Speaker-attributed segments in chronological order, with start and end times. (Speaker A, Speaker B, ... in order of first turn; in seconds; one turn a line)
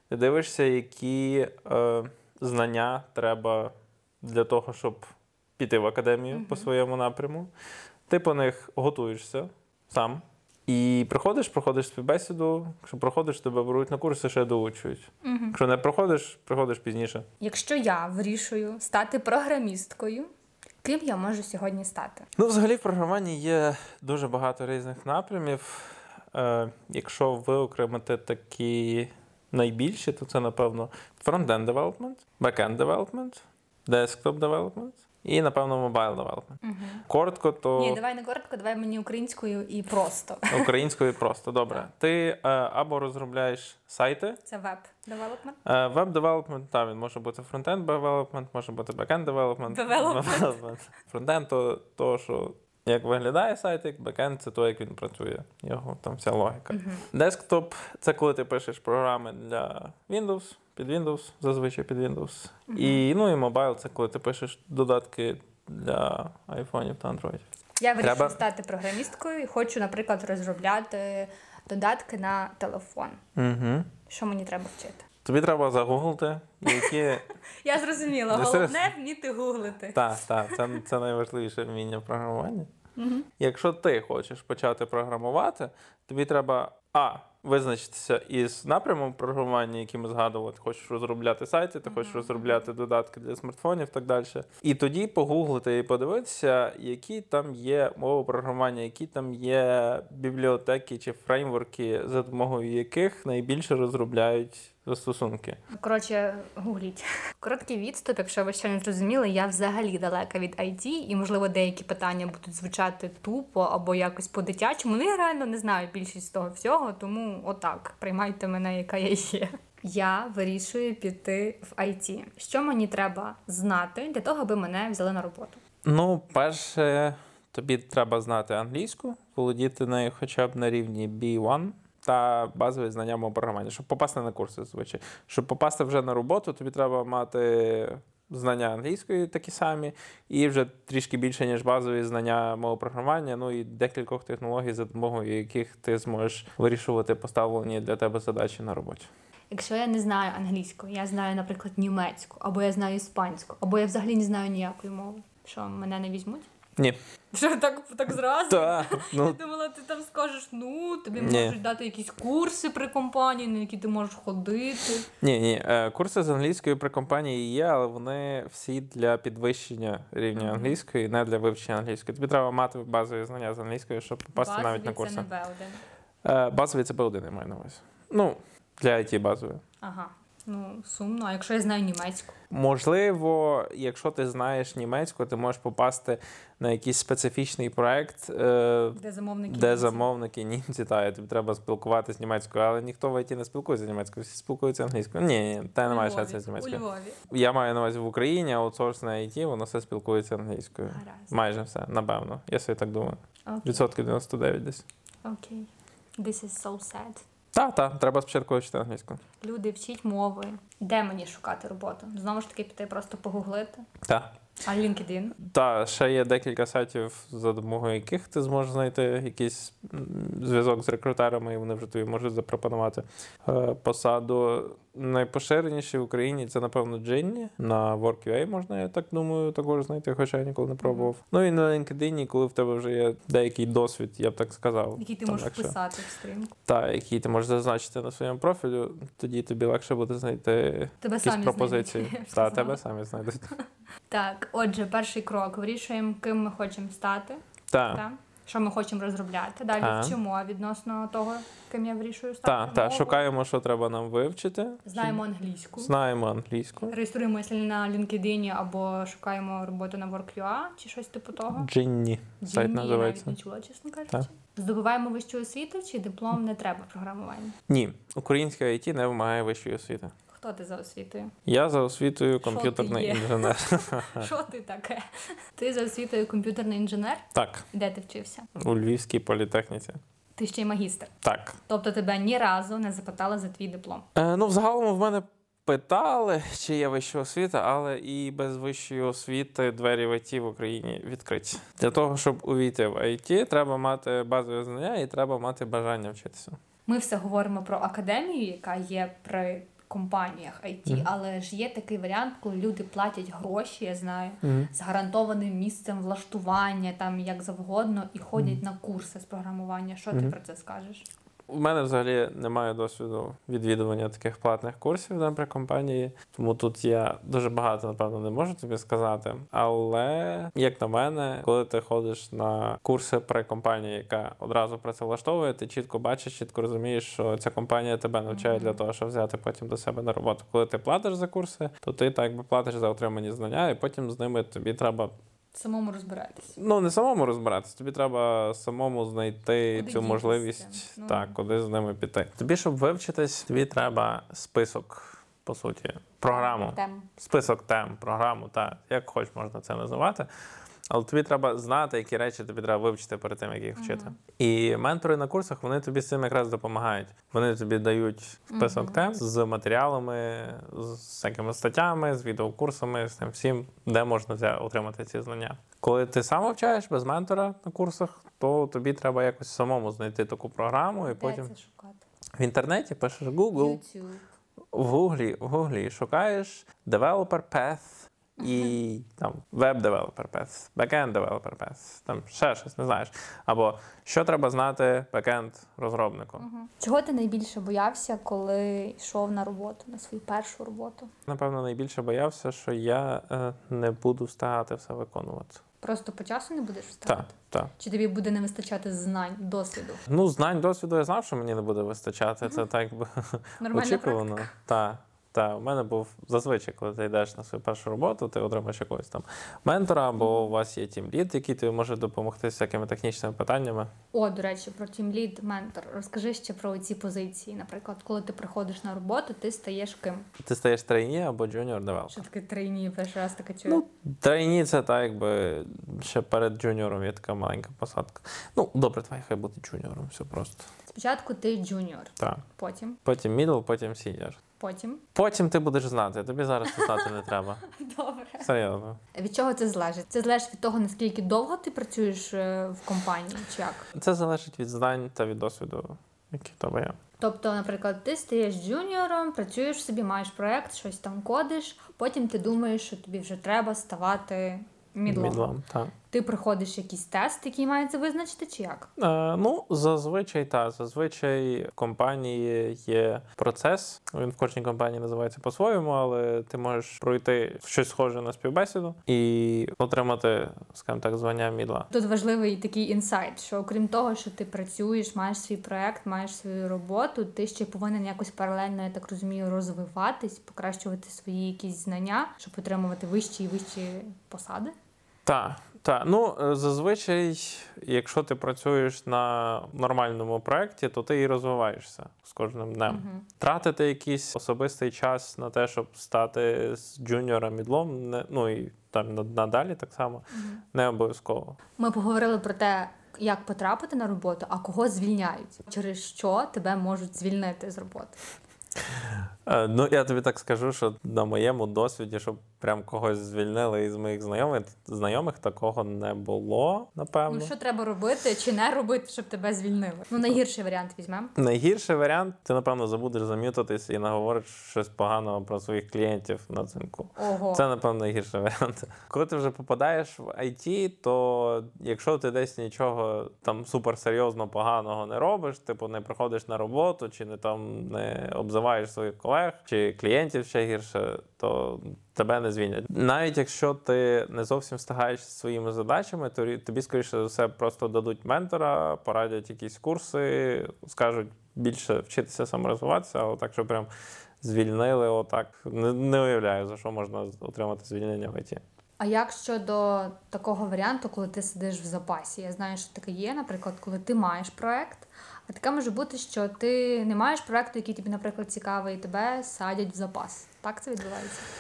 Speaker A: 0.1-5.1
Speaker A: 5.6-7.5
Speaker B: 6.3-6.7
Speaker A: 8.1-17.3
Speaker B: 15.2-15.6
Speaker B: 17.4-20.3
Speaker B: 20.8-22.3
Speaker A: 22.4-38.0
Speaker B: 36.6-37.0
Speaker B: 37.8-40.7
Speaker A: 40.5-44.4
Speaker B: 44.5-45.6
Speaker A: 45.6-67.4
Speaker B: 49.7-50.6
Speaker B: 56.7-57.0
Speaker B: 62.7-63.1
Speaker B: 67.8-73.2
Speaker A: 68.0-68.4
Speaker A: 73.4-73.9
Speaker B: 74.1-75.1
Speaker A: 75.2-77.2
Speaker B: 76.7-80.8
Speaker A: 78.3-78.9
Speaker A: 79.9-82.7
Speaker B: 83.0-83.3
Speaker A: 83.4-105.6
Speaker B: 91.8-92.7
Speaker B: 105.7-125.6
Speaker A: 125.8-149.1
Speaker B: 149.5-156.5
Speaker B: 157.3-165.1
Speaker A: 158.5-159.4
Speaker A: 161.2-161.6
Speaker A: 165.2-175.3
Speaker B: 170.3-170.8
Speaker B: 174.3-175.8
Speaker A: 176.2-179.6
Speaker B: 179.8-182.3
Speaker A: 182.5-204.8
Speaker B: 188.9-190.1
Speaker B: 195.8-197.2
Speaker B: 200.9-201.3
Speaker B: 203.5-203.9
Speaker B: 205.2-207.2
Speaker A: 207.5-209.2
Speaker B: 209.4-213.8
Speaker A: 214.1-214.3
Speaker B: 214.6-215.4
Speaker A: 215.4-235.8
Speaker B: 230.8-231.1
Speaker B: 235.0-236.5
Speaker A: 236.7-243.4
Speaker B: 241.0-242.8
Speaker B: 243.4-247.4
Speaker A: 247.7-248.0
Speaker B: 247.9-253.2
Speaker A: 249.8-250.2
Speaker A: 252.4-255.2
Speaker B: 254.8-255.9
Speaker A: 255.8-256.9
Speaker B: 256.9-261.7
Speaker A: 261.6-263.4
Speaker B: 262.4-267.6
Speaker A: 267.7-270.1
Speaker B: 270.3-271.3
Speaker A: 271.5-274.3
Speaker B: 272.4-278.5
Speaker A: 277.3-277.6
Speaker A: 278.6-280.0
Speaker B: 280.4-281.1
Speaker A: 281.2-281.6
Speaker B: 281.7-284.1
Speaker A: 284.1-296.6
Speaker B: 296.9-311.1
Speaker A: 304.4-304.7
Speaker A: 311.5-335.1
Speaker B: 328.3-328.8
Speaker B: 335.5-336.6
Speaker A: 336.6-350.3
Speaker B: 339.7-341.4
Speaker B: 346.3-347.1
Speaker A: 350.9-371.5
Speaker B: 353.8-354.2
Speaker B: 358.5-359.0
Speaker B: 371.1-372.0
Speaker A: 372.4-373.8
Speaker B: 373.5-374.2
Speaker A: 374.7-386.4
Speaker B: 378.4-378.8
Speaker B: 386.4-391.1
Speaker A: 391.3-395.6
Speaker B: 395.8-400.0
Speaker A: 397.1-397.7
Speaker A: 400.1-413.9
Speaker B: 403.6-404.5
Speaker B: 410.2-410.5
Speaker B: 414.1-420.3
Speaker A: 420.4-422.2
Speaker B: 422.1-423.8
Speaker A: 423.7-430.7
Speaker B: 430.9-433.0
Speaker A: 433.1-434.4
Speaker B: 434.6-435.0
Speaker A: 435.1-437.6
Speaker B: 436.7-437.1
Speaker B: 437.6-438.5
Speaker A: 438.4-439.0
Speaker B: 439.1-443.9
Speaker A: 443.9-447.0
Speaker B: 447.2-455.5
Speaker A: 455.1-455.9
Speaker B: 456.1-458.9
Speaker A: 459.0-471.9
Speaker B: 471.9-484.7
Speaker A: 485.3-501.6
Speaker B: 492.9-493.3
Speaker B: 500.3-500.6
Speaker B: 501.8-508.2
Speaker A: 508.9-517.5
Speaker B: 517.3-521.3
Speaker A: 521.4-553.9
Speaker B: 527.2-527.7
Speaker A: 554.4-558.6
Speaker B: 559.0-571.5